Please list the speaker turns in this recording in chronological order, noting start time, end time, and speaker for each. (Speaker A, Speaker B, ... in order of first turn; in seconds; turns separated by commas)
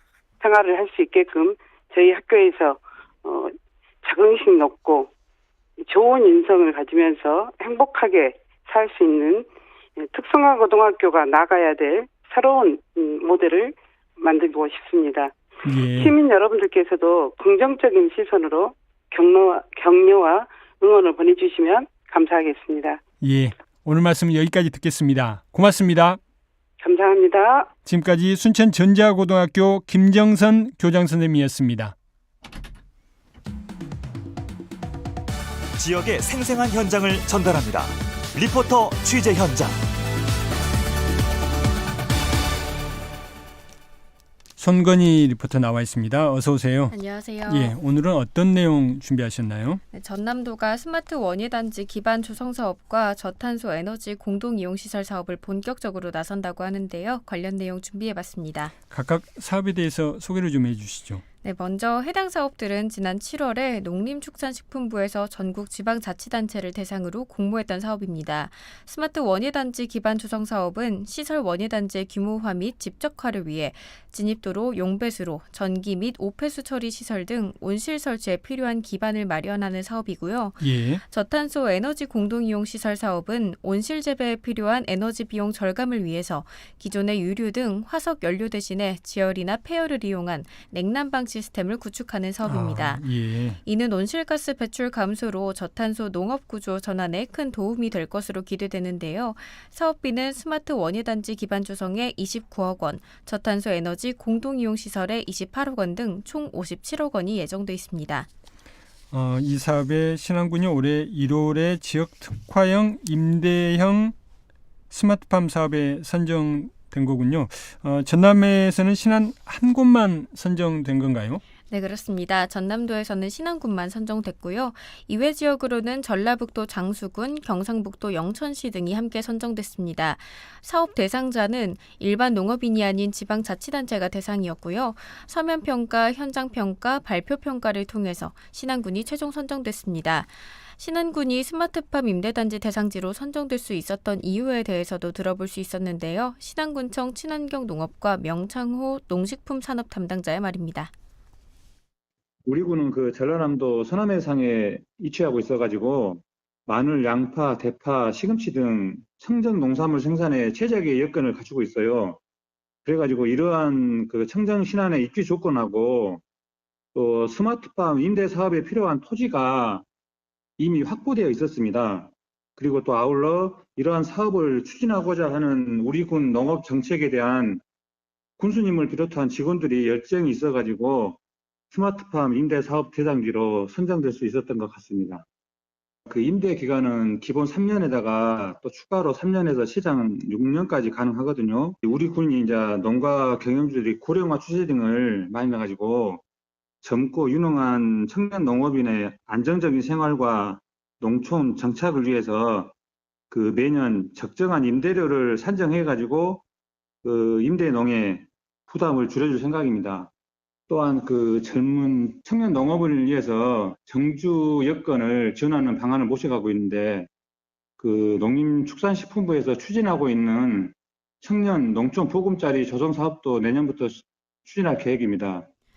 Speaker A: 0.4-5.1, Speaker A: 5.8-15.3, Speaker B: 15.6-16.1, Speaker A: 15.9-23.0, Speaker B: 23.2-26.2, Speaker A: 26.8-27.7, Speaker B: 27.9-31.9, Speaker C: 35.8-39.8, Speaker B: 44.6-46.9, Speaker D: 46.9-47.7, Speaker B: 47.5-49.8, Speaker D: 49.9-58.7, Speaker B: 58.9-61.2, Speaker D: 61.4-93.0, Speaker B: 80.6-81.0, Speaker B: 92.4-93.6, Speaker D: 93.6-108.3, Speaker B: 109.1-114.1, Speaker B: 114.9-121.4, Speaker D: 121.7-150.9, Speaker E: 152.4-162.2, Speaker E: 162.8-166.2, Speaker E: 166.9-169.8, Speaker E: 170.6-177.6, Speaker E: 178.4-181.2, Speaker E: 181.7-185.2, Speaker E: 186.1-196.2, Speaker E: 196.8-202.7, Speaker E: 203.3-206.4, Speaker E: 207.0-210.1, Speaker E: 210.7-217.1, Speaker E: 217.8-225.5